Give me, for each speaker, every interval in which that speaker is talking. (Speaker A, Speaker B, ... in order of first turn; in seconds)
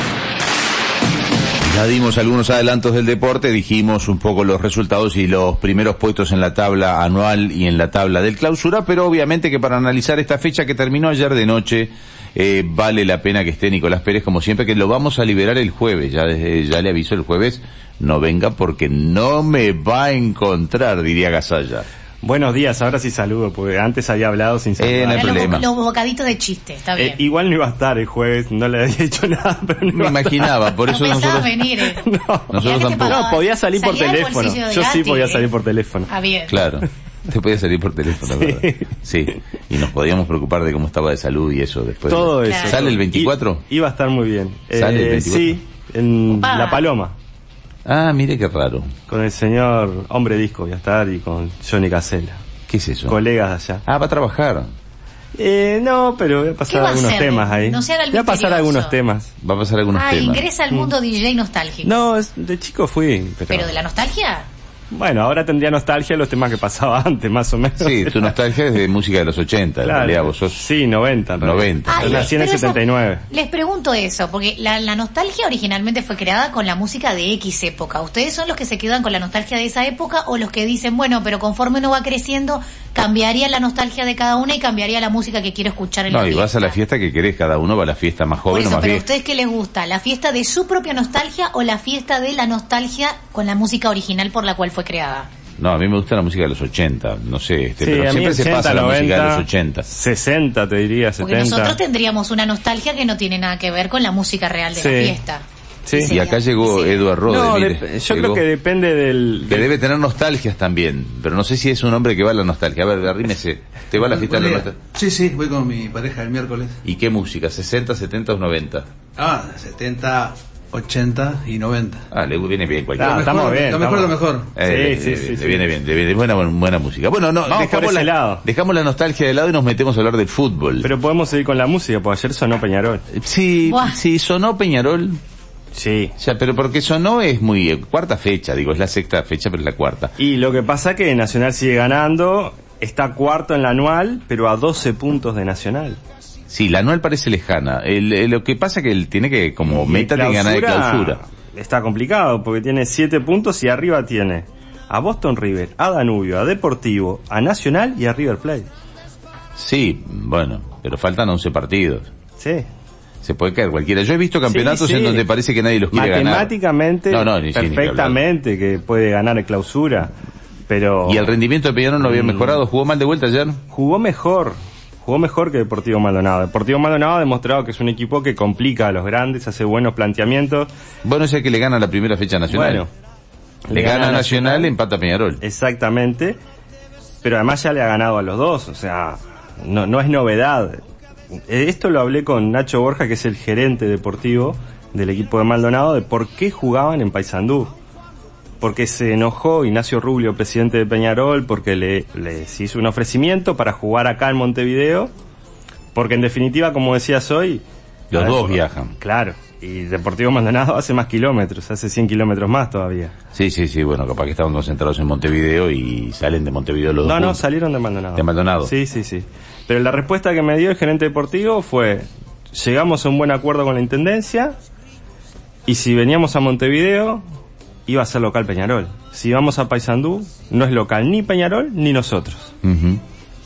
Speaker A: 1.6-21.9, 24.8-25.6, 29.9-31.6, 32.5-33.3, 36.5-43.6, 44.7-45.6, 47.9-48.9, 52.7-53.2, 53.9-54.7, 59.4-60.5, 63.4-63.7, 67.8-70.7, 71.4-72.3, 86.1-89.0, 95.6-99.9, 106.0-108.4, 109.5-114.8, 116.8-118.8, 122.1-123.7, 124.5-130.9, 133.1-135.2, 136.2-140.1, 146.5-151.2, 159.6-162.1, 163.2-166.5, 167.1-168.2, 171.1-173.6, 181.0-182.8, 183.7-185.4, 208.1-208.9, 213.3-217.4, 218.2-218.7, 232.6-233.0
Speaker B: 22.2-25.5, 27.0-30.8, 31.8-36.1, 38.2-38.9, 42.1-47.1, 49.1-52.4, 53.1-53.8, 55.3-59.3, 61.8-63.5, 64.9-68.3, 69.8-73.2, 97.8-101.8, 104.7-105.2, 105.9-106.2, 107.2-109.7, 123.0-125.7, 127.5-128.4, 130.8-133.1, 135.7-136.2, 140.2-146.0, 149.7-158.7, 162.4-162.7, 164.5-165.2, 165.9-170.2, 170.7-171.3, 172.0-172.6, 173.7-180.7, 182.5-182.9, 183.7-184.7, 185.4-186.4, 187.2-190.8, 191.5-197.7, 198.6-205.1, 205.9-213.1, 217.0-224.6, 225.7-227.2, 227.9-232.6
Speaker C: 25.1-27.2, 30.9-32.0, 32.6-35.5, 36.1-36.6, 42.4-42.8, 46.4-46.8, 56.7-59.0, 59.9-62.0, 63.5-64.5, 71.9-86.8, 88.5-95.3, 101.2-107.1, 133.7-134.0
Speaker D: 114.2-116.8, 119.2-122.0, 123.1-124.5